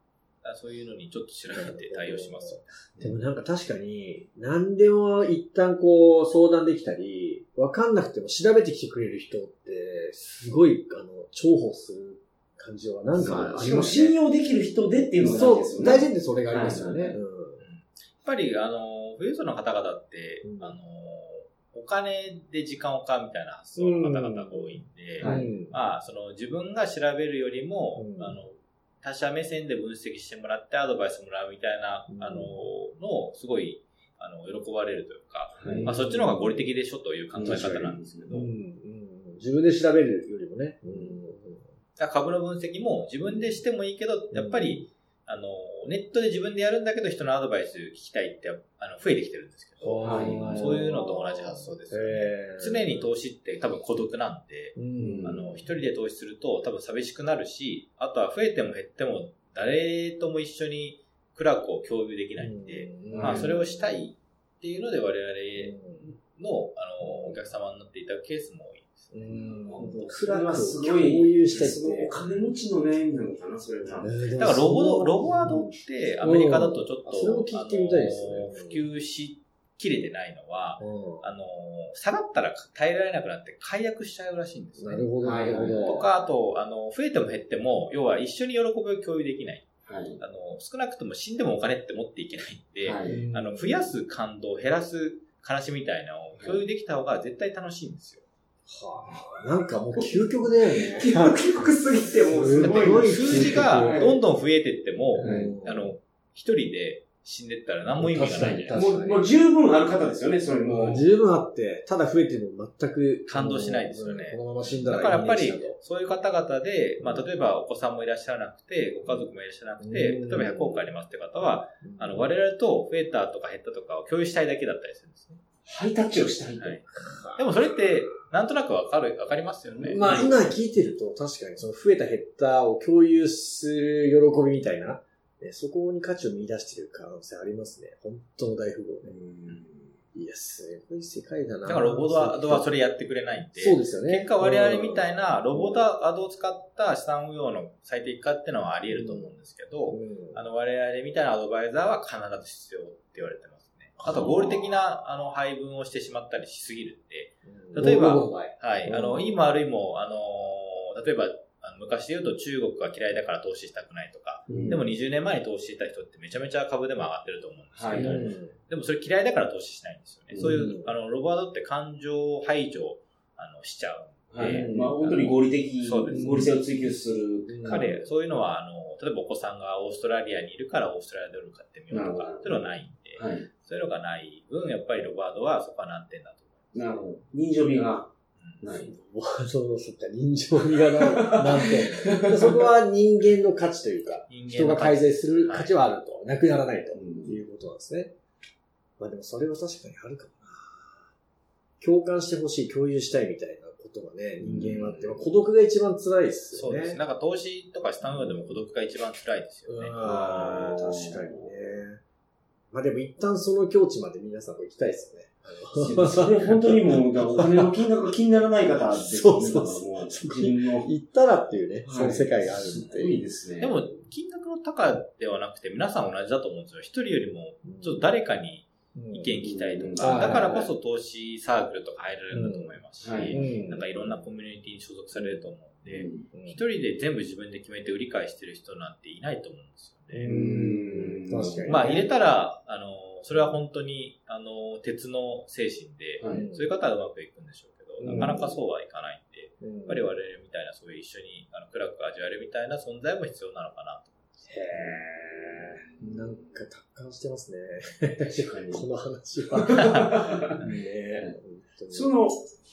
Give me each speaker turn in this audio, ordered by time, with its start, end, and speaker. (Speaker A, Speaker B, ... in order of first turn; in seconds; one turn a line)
Speaker A: 0.4-2.8
Speaker B: 1.5-14.2
Speaker C: 13.2-17.2
Speaker A: 13.2-13.6
Speaker B: 15.2-17.6
Speaker A: 17.6-38.5
Speaker B: 20.4-20.8
Speaker B: 23.8-25.8
Speaker C: 25.2-25.5
Speaker B: 27.9-28.4
Speaker B: 32.1-32.6
Speaker C: 35.6-36.0
Speaker B: 35.6-36.7
Speaker C: 37.3-38.3
Speaker B: 37.4-41.7
Speaker A: 42.0-69.0
Speaker B: 43.2-43.6
Speaker B: 44.3-44.8
Speaker B: 49.8-53.0
Speaker C: 50.0-50.7
Speaker B: 54.8-55.6
Speaker C: 55.0-55.5
Speaker B: 62.4-64.0
Speaker C: 63.1-63.5
Speaker B: 65.5-66.1
Speaker B: 67.0-67.4
Speaker B: 69.1-72.1
Speaker C: 69.7-74.2
Speaker B: 73.9-78.8
Speaker A: 74.3-85.1
Speaker B: 80.8-81.3
Speaker B: 84.8-86.1
Speaker C: 85.2-86.0
Speaker A: 85.8-98.2
Speaker C: 89.8-90.2
Speaker C: 92.8-93.2
Speaker B: 93.0-93.9
Speaker C: 96.3-96.6
Speaker B: 98.7-101.5
Speaker C: 100.8-104.2
Speaker B: 102.2-104.1
Speaker A: 102.5-108.8
Speaker C: 105.2-105.5
Speaker B: 105.2-105.9
Speaker B: 108.0-109.3
Speaker C: 108.7-111.1
Speaker B: 110.6-115.8
Speaker A: 113.2-125.4
Speaker B: 117.0-117.3
Speaker B: 119.8-120.9
Speaker B: 121.4-122.4
Speaker C: 125.7-126.8
Speaker A: 126.6-126.8
Speaker B: 126.9-127.5
Speaker A: 127.3-130.3
Speaker C: 129.6-130.5
Speaker B: 129.8-139.2
Speaker C: 139.0-139.9
Speaker B: 140.1-142.8
Speaker A: 141.6-176.5
Speaker B: 143.5-145.9
Speaker B: 148.9-149.3
Speaker B: 149.9-150.4
Speaker B: 154.0-154.6
Speaker C: 154.1-154.6
Speaker B: 157.4-159.5
Speaker C: 164.5-164.8
Speaker B: 164.5-164.9
Speaker C: 167.7-168.3
Speaker B: 167.9-168.6
Speaker B: 170.3-170.9
Speaker C: 174.3-178.0
Speaker B: 174.4-174.9
Speaker B: 176.1-176.5
Speaker B: 177.5-178.0
Speaker A: 177.6-186.7
Speaker C: 181.9-183.5
Speaker C: 186.7-188.9
Speaker A: 188.4-188.7
Speaker B: 188.8-198.1
Speaker C: 190.9-192.3
Speaker A: 194.3-195.8
Speaker C: 196.9-197.4
Speaker B: 199.0-201.1
Speaker B: 201.8-207.0
Speaker C: 204.4-205.2
Speaker A: 206.5-209.9
Speaker B: 208.0-208.6
Speaker B: 209.7-212.0
Speaker C: 210.0-211.5
Speaker B: 212.7-217.9
Speaker C: 215.8-220.9
Speaker B: 218.7-223.2
Speaker C: 221.8-223.8
Speaker A: 223.6-240.3
Speaker B: 227.6-228.1
Speaker B: 228.9-229.3
Speaker C: 229.4-230.7
Speaker B: 230.0-230.7
Speaker B: 232.3-232.8
Speaker C: 233.0-233.6
Speaker B: 233.3-234.1
Speaker B: 235.1-235.5
Speaker C: 235.8-236.3
Speaker B: 236.3-236.6
Speaker B: 240.1-242.1
Speaker C: 240.3-241.8
Speaker A: 241.7-254.5
Speaker C: 246.2-246.4
Speaker B: 246.3-246.7
Speaker B: 248.0-248.6
Speaker C: 248.0-248.4
Speaker B: 249.6-250.1
Speaker B: 254.5-262.2
Speaker C: 254.7-256.3
Speaker C: 258.2-258.8
Speaker C: 259.5-260.6
Speaker C: 261.9-262.5